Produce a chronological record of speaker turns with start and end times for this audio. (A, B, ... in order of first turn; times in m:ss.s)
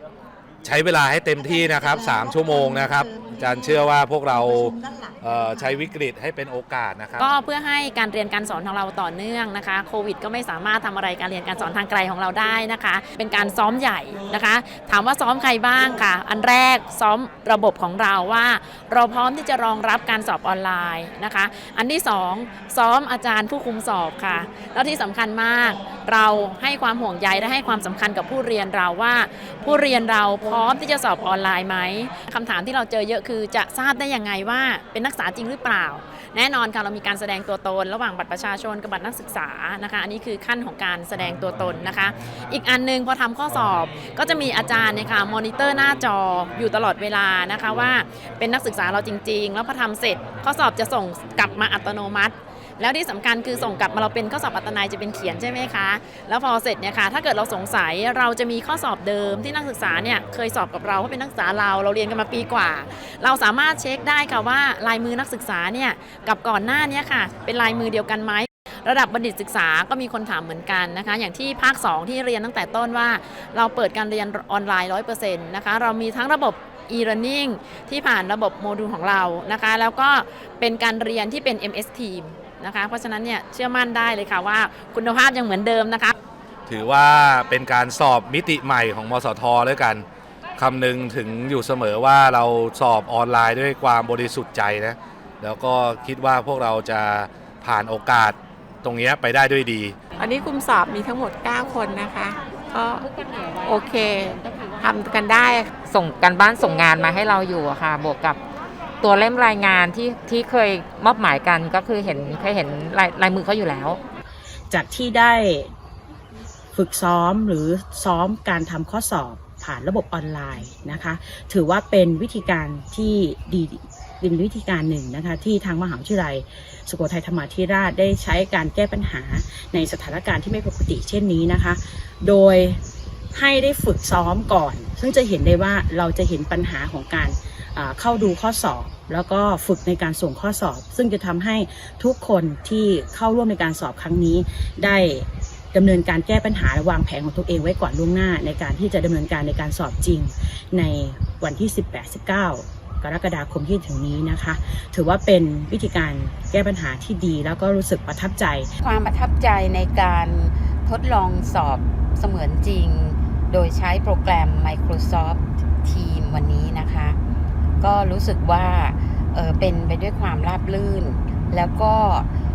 0:00.6-0:07.3 A
0:07.2-1:26.1 B
1:26.7-1:30.0 A
1:30.6-1:40.0 A
1:40.2-1:43.1 C
1:43.1-1:43.8 D
1:43.6-1:45.7 C
1:45.8-1:48.4 D
1:49.0-1:54.0 D
1:54.7-1:55.7 E
1:56.7-2:12.8 E
2:13.3-2:38.7 E
2:38.8-2:47.2 F
2:47.8-2:52.3 F